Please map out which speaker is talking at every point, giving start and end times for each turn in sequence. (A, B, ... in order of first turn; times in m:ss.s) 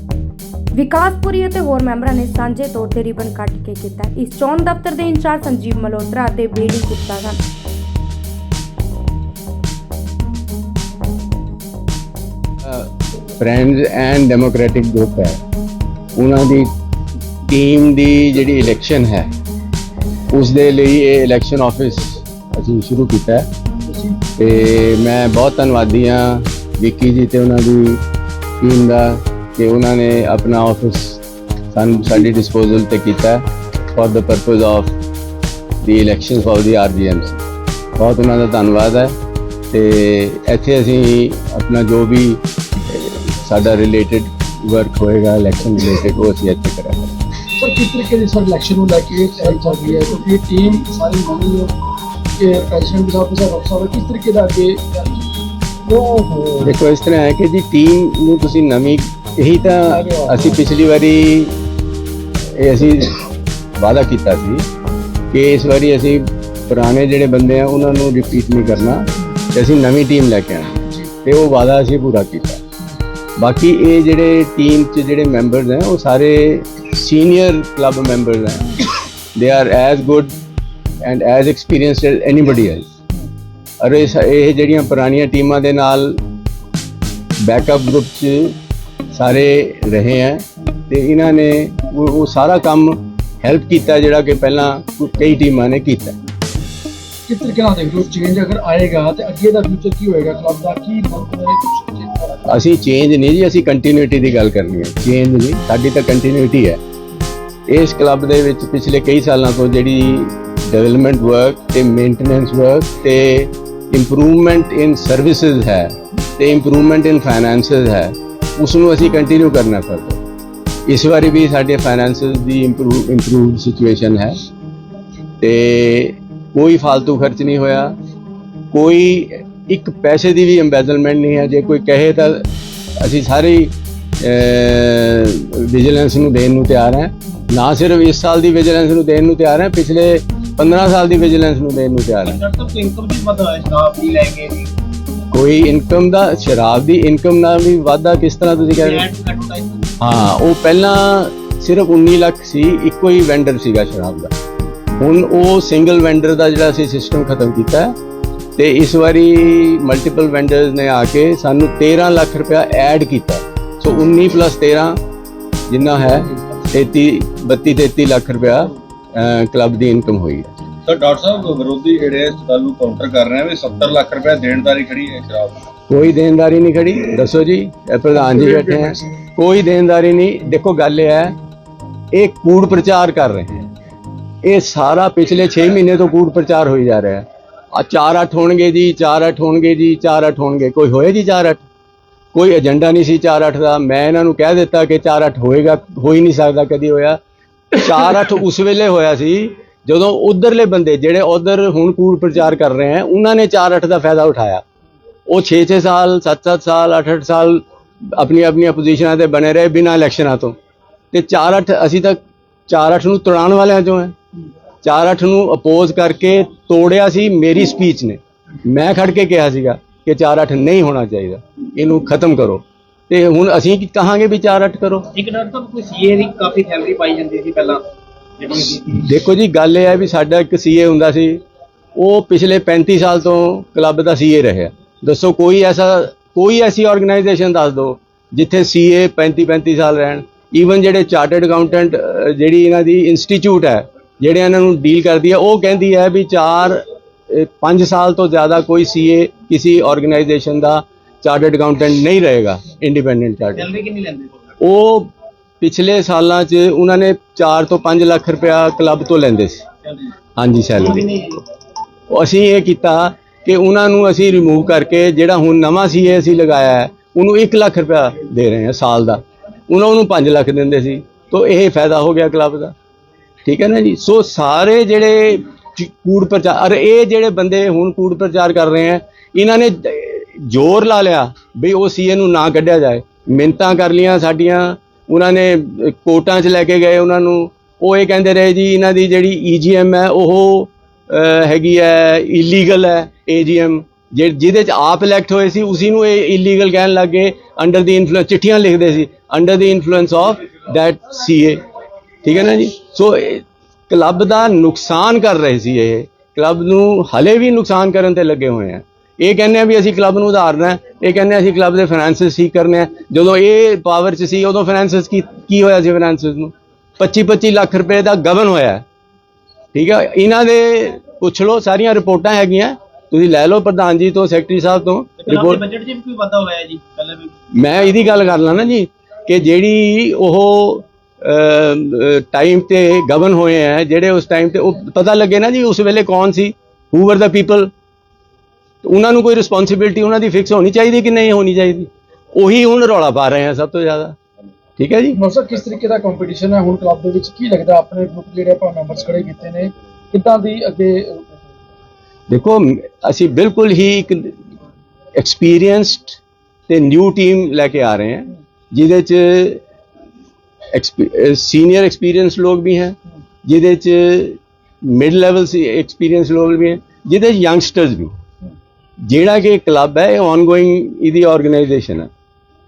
0:00.7-0:07.4 A
0:12.7-0:15.4 B
0:16.2-0:16.7 B
0:17.5-0:19.3 B
0:20.3-0:23.5 B
0:23.9-0:24.2 C
0:24.4-0:28.0 B
0:28.6-0:31.2 B
0:31.7-0:33.4 B
0:34.0-0:34.9 B
0:35.8-0:37.4 B
0:38.0-0:39.1 B
0:39.7-0:47.1 B
0:47.6-0:51.8 C
0:52.4-0:56.8 C
0:56.6-1:01.6 B
0:59.9-1:00.6 C
1:02.6-1:03.2 B
1:03.8-1:04.7 B
1:05.3-1:12.6 B
1:13.4-1:18.8 B
1:19.4-1:20.3 B
1:21.0-1:22.9 B
1:23.8-1:26.2 B
1:27.4-1:28.6 B
1:29.1-1:36.2 B
1:37.3-1:42.4 C
1:42.5-1:46.8 B
1:47.7-2:00.2 B
2:00.9-2:04.4 B
2:05.4-2:07.9 B
2:08.7-2:12.4 B
2:13.0-2:22.4 B
2:22.3-2:24.7 D
2:25.3-2:29.2 B
2:28.8-2:29.8 D
2:30.0-2:34.3 B
2:35.0-2:38.0 B
2:38.6-2:45.0 B
2:45.7-2:50.5 B
2:50.9-2:55.6 E
2:55.9-3:01.4 B
2:58.2-2:59.0 C
3:02.1-3:03.7 B
3:04.4-3:11.6 B
3:12.4-3:17.2 B
3:17.7-3:24.6 B
3:25.3-3:30.6 B
3:31.1-3:34.2 B
3:34.8-3:45.1 B
3:45.2-3:47.8 D
3:48.4-3:48.9 D
3:48.8-3:51.4 B
3:52.0-4:13.7 B
4:13.6-4:14.3 D
4:14.6-4:15.1 B
4:15.6-4:19.6 B
4:20.4-4:21.3 B
4:22.1-4:32.7 B
4:33.4-5:01.6 B
5:02.2-5:18.8 B
5:19.7-5:25.7 B
5:25.3-5:27.3 D
5:27.5-5:37.7 B
5:38.8-5:44.2 B
5:44.8-5:45.2 B
5:45.2-5:51.3 C
5:52.3-5:54.3 B
5:55.2-5:59.6 B
6:00.7-6:08.1 B
6:09.0-6:12.1 B